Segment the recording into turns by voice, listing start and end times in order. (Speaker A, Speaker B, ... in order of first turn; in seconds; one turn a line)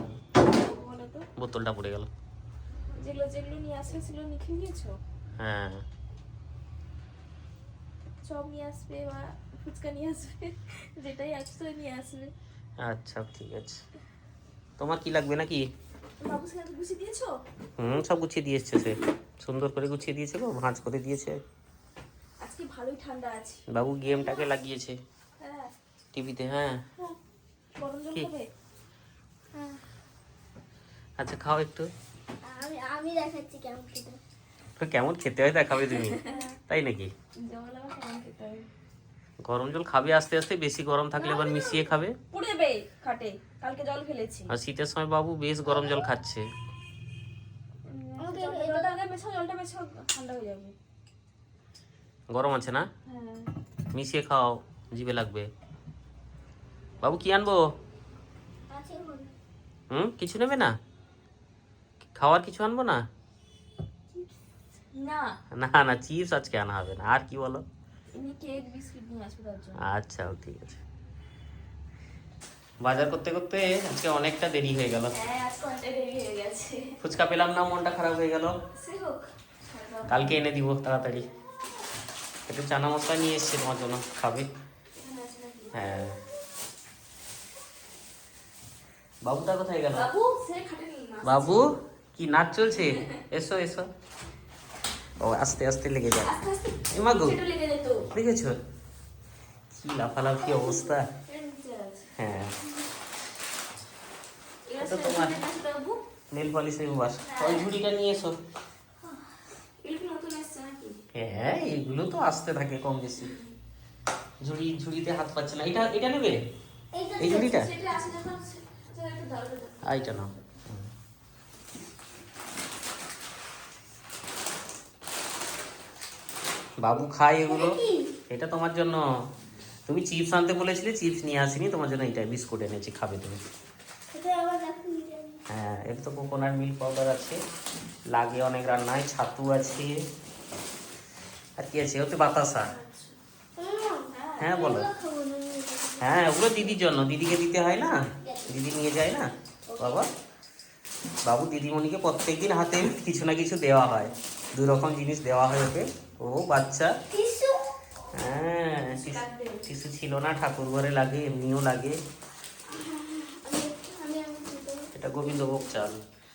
Speaker A: 0.4-1.3
Speaker B: 1.4-2.1
Speaker A: 2.9-5.0
Speaker B: 5.4-5.8
Speaker A: 8.2-12.3
Speaker B: 12.8-13.8
Speaker B: 14.8-15.6
Speaker A: 16.2-17.3
Speaker B: 17.8-21.4
Speaker A: 22.4-23.6
Speaker B: 23.7-25.0
Speaker C: 24.0-24.5
Speaker A: 25.4-25.7
Speaker B: 26.1-26.8
Speaker A: 27.8-28.5
Speaker C: 29.5-29.8
Speaker B: 31.2-31.9
Speaker C: 32.4-34.2
Speaker B: 34.8-37.1
Speaker A: 35.9-36.5
Speaker A: 37.4-38.7
Speaker B: 39.4-42.1
Speaker C: 41.2-41.9
Speaker A: 42.3-44.5
Speaker B: 44.5-46.5
Speaker A: 47.9-50.7
Speaker C: 48.2-49.0
Speaker B: 52.3-52.9
Speaker A: 53.1-53.5
Speaker B: 53.9-55.5
Speaker B: 57.0-57.6
Speaker C: 58.7-59.3
Speaker B: 59.9-60.7
Speaker B: 62.1-63.0
Speaker A: 64.9-65.4
Speaker B: 65.5-67.6
Speaker A: 68.1-69.8
Speaker B: 69.8-70.8
Speaker B: 72.8-75.1
Speaker A: 75.1-77.0
Speaker B: 77.0-78.5
Speaker A: 78.7-80.4
Speaker B: 80.1-81.3
Speaker B: 82.5-84.5
Speaker A: 85.0-85.8
Speaker B: 85.7-86.2
Speaker B: 89.2-90.1
Speaker A: 89.9-91.6
Speaker B: 91.2-93.9
Speaker A: 92.8-93.1
Speaker B: 95.2-96.3
Speaker A: 96.2-98.1
Speaker B: 96.9-97.4
Speaker B: 98.1-98.6
Speaker B: 99.7-101.1
Speaker A: 100.4-102.1
Speaker B: 102.2-102.5
Speaker A: 104.7-106.0
Speaker B: 104.8-105.4
Speaker B: 106.3-108.3
Speaker A: 107.2-107.7
Speaker A: 109.8-111.0
Speaker B: 111.1-113.3
Speaker A: 113.2-113.5
Speaker B: 114.4-116.4
Speaker C: 116.9-117.6
Speaker B: 117.2-117.7
Speaker A: 117.3-120.0
Speaker B: 119.8-120.9
Speaker B: 126.8-129.0
Speaker C: 127.4-128.1
Speaker B: 129.9-133.4
Speaker C: 134.1-135.4
Speaker B: 135.5-137.4
Speaker B: 138.1-140.1
Speaker B: 141.6-142.7
Speaker A: 142.6-143.2
Speaker C: 143.6-146.8
Speaker A: 144.1-144.6
Speaker B: 144.4-144.9
Speaker B: 146.0-150.1
Speaker C: 148.2-148.6
Speaker C: 149.7-150.0
Speaker B: 151.2-156.9
Speaker C: 157.1-157.7
Speaker B: 158.1-162.0
Speaker A: 158.9-159.6
Speaker C: 162.7-164.9
Speaker B: 164.9-166.0